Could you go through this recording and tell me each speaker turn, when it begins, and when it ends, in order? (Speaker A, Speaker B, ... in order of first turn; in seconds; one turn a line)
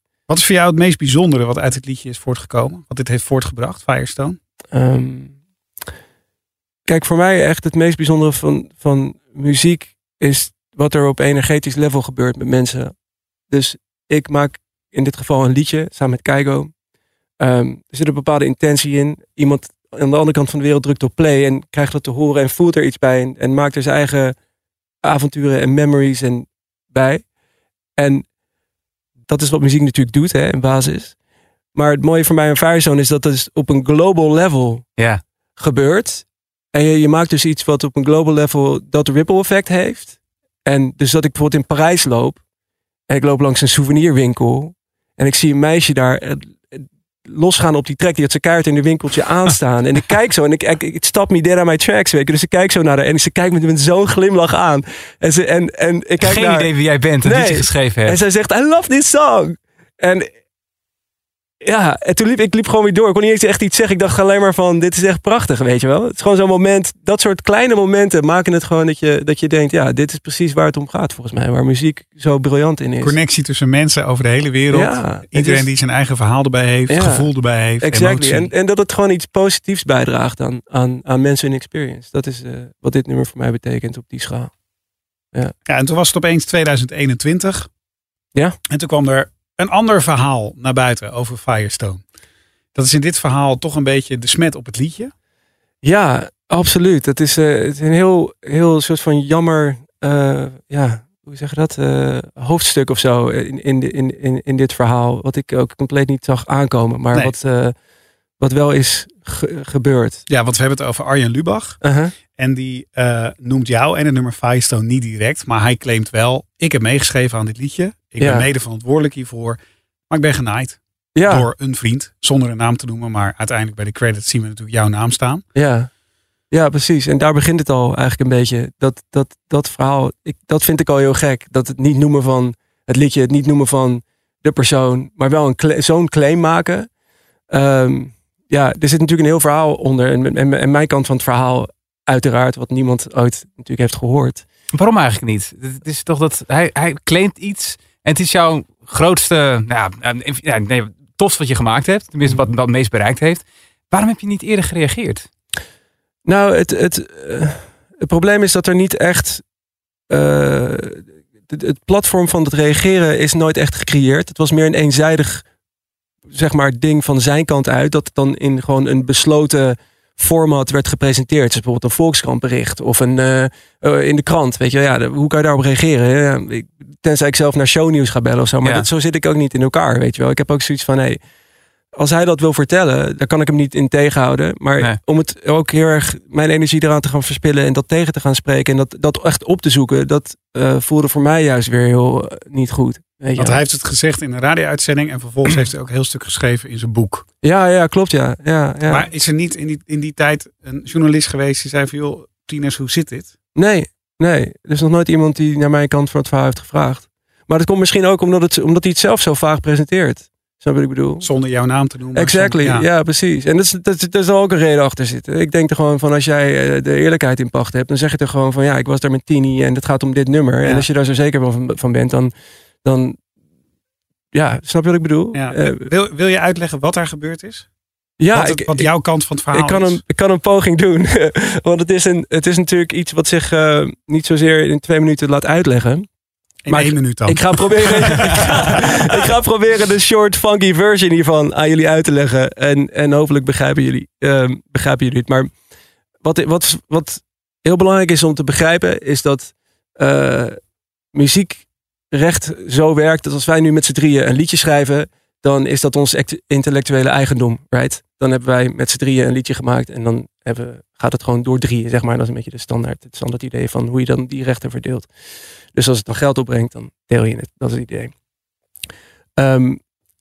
Speaker A: 0.3-4.4
Speaker B: 4.7-5.3
Speaker B: 6.8-12.9
Speaker B: 13.5-16.7
Speaker B: 17.4-24.3
Speaker B: 25.0-27.2
Speaker B: 28.0-28.2
Speaker B: 29.3-31.1
Speaker B: 31.7-34.9
Speaker B: 35.6-42.4
Speaker B: 43.1-56.7
Speaker C: 56.2-58.2
Speaker B: 57.2-60.3
Speaker B: 61.6-73.1
Speaker A: 73.0-78.5
Speaker B: 74.7-75.7
Speaker B: 76.9-77.3
Speaker B: 77.8-84.5
Speaker A: 85.7-87.7
Speaker A: 88.7-92.0
Speaker A: 92.7-95.1
Speaker B: 95.8-107.7
Speaker B: 108.4-110.2
Speaker A: 110.3-111.8
Speaker B: 111.8-112.1
Speaker A: 112.3-119.6
Speaker B: 118.2-118.5
Speaker A: 120.1-125.4
Speaker B: 121.2-121.5
Speaker B: 125.5-125.9
Speaker B: 126.5-136.9
Speaker B: 137.5-144.4
Speaker C: 144.7-155.3
Speaker B: 156.2-159.4
Speaker B: 160.1-165.4
Speaker B: 166.3-181.2
Speaker B: 181.9-193.6
Speaker A: 193.3-197.2
Speaker B: 197.4-199.1
Speaker A: 198.9-203.3
Speaker B: 203.5-211.3
Speaker A: 211.2-212.8
Speaker B: 212.1-222.3
Speaker B: 222.8-223.2
Speaker B: 224.3-225.9
Speaker A: 225.3-227.7
Speaker B: 228.2-228.9
Speaker A: 228.3-230.0
Speaker B: 229.5-236.1
Speaker A: 236.6-238.8
Speaker B: 236.7-245.5
Speaker B: 246.2-250.6
Speaker B: 251.1-265.1
Speaker B: 265.7-268.1
Speaker B: 269.4-269.8